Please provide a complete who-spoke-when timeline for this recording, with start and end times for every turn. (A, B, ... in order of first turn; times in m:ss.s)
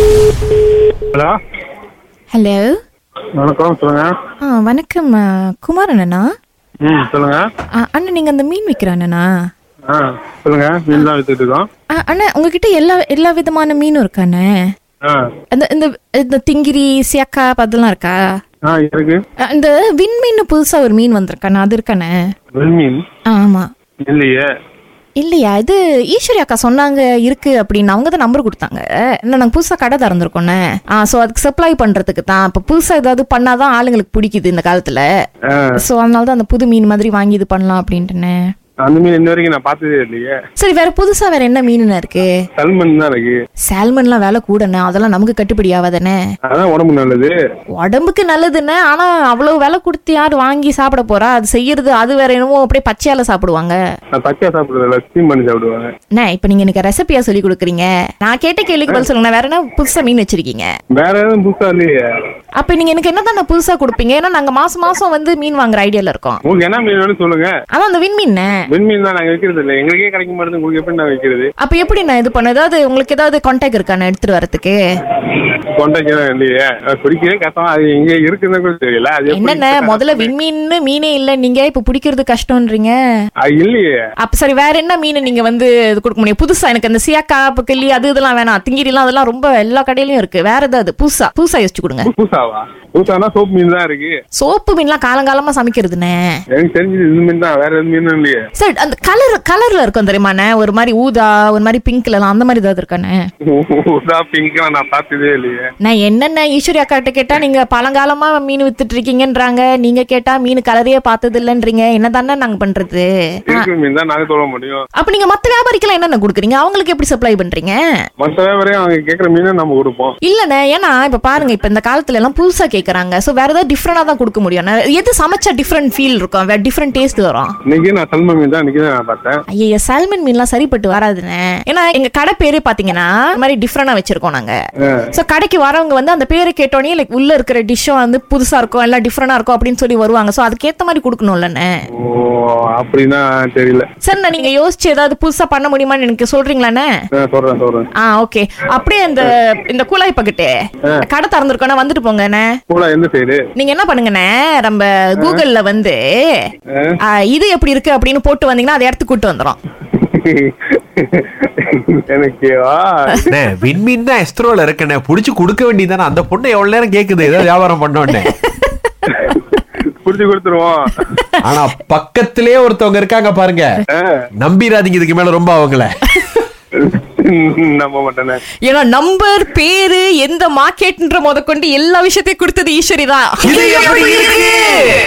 0:02.3-0:02.8 A
0:03.4-0:04.1 B
0:04.4-0:06.2 A
0:06.8-0:07.4 B
0:07.8-0:09.3 A
0:09.9-0:11.7 B
0:11.9-0:14.5 A
0:15.5-0:18.2 A
0:18.7-0:19.2 B
0:19.4-0:22.1 A
0:22.6-0:23.0 B
0:23.3-0:23.7 A
0:24.1-0:24.5 B
0:25.2-0:35.0 A
0:35.8-0:38.4 A
0:38.8-0:40.4 B
0:40.6-0:42.3 A
0:42.6-0:43.4 B
0:43.7-0:46.2 A
0:46.5-0:47.3 B
0:47.8-0:53.8 A
0:54.1-0:55.9 B
0:56.2-1:00.7 A
1:00.9-1:02.0 B
1:02.6-1:06.4 A
1:06.4-1:07.5 B
1:07.7-1:08.5 A
1:08.7-1:11.5 B
1:11.6-1:14.8 A
1:15.8-1:20.3 B
1:19.3-1:22.9 A
1:23.4-1:24.0 B
1:24.2-1:32.1 A
1:32.0-1:34.2 B
1:34.4-1:36.2 A
1:36.5-1:38.4 B
1:38.6-1:43.2 A
1:43.4-1:45.6 B
1:45.8-1:53.7 A
1:53.5-1:54.8 B
1:55.0-1:57.8 A
1:58.2-2:00.1 B
2:00.2-2:07.5 A
2:07.7-2:09.4 B
2:09.5-2:14.5 A
2:15.1-2:21.7 A
2:22.0-2:23.9 B
2:24.0-2:26.9 A
2:27.2-2:27.9 B
2:28.0-2:30.5 A
2:31.0-2:32.5 A
2:32.7-2:33.4 B
2:33.6-2:36.4 A
2:36.7-2:37.0 B
2:37.1-2:39.6 A
2:39.9-2:43.3 B
2:43.3-2:48.3 C
2:48.1-2:48.9 A
2:49.1-2:49.4 B
2:49.9-2:51.1 B
2:51.4-2:53.7 C
2:54.4-2:56.0 C
2:56.8-2:58.4 B
2:58.6-3:04.9 A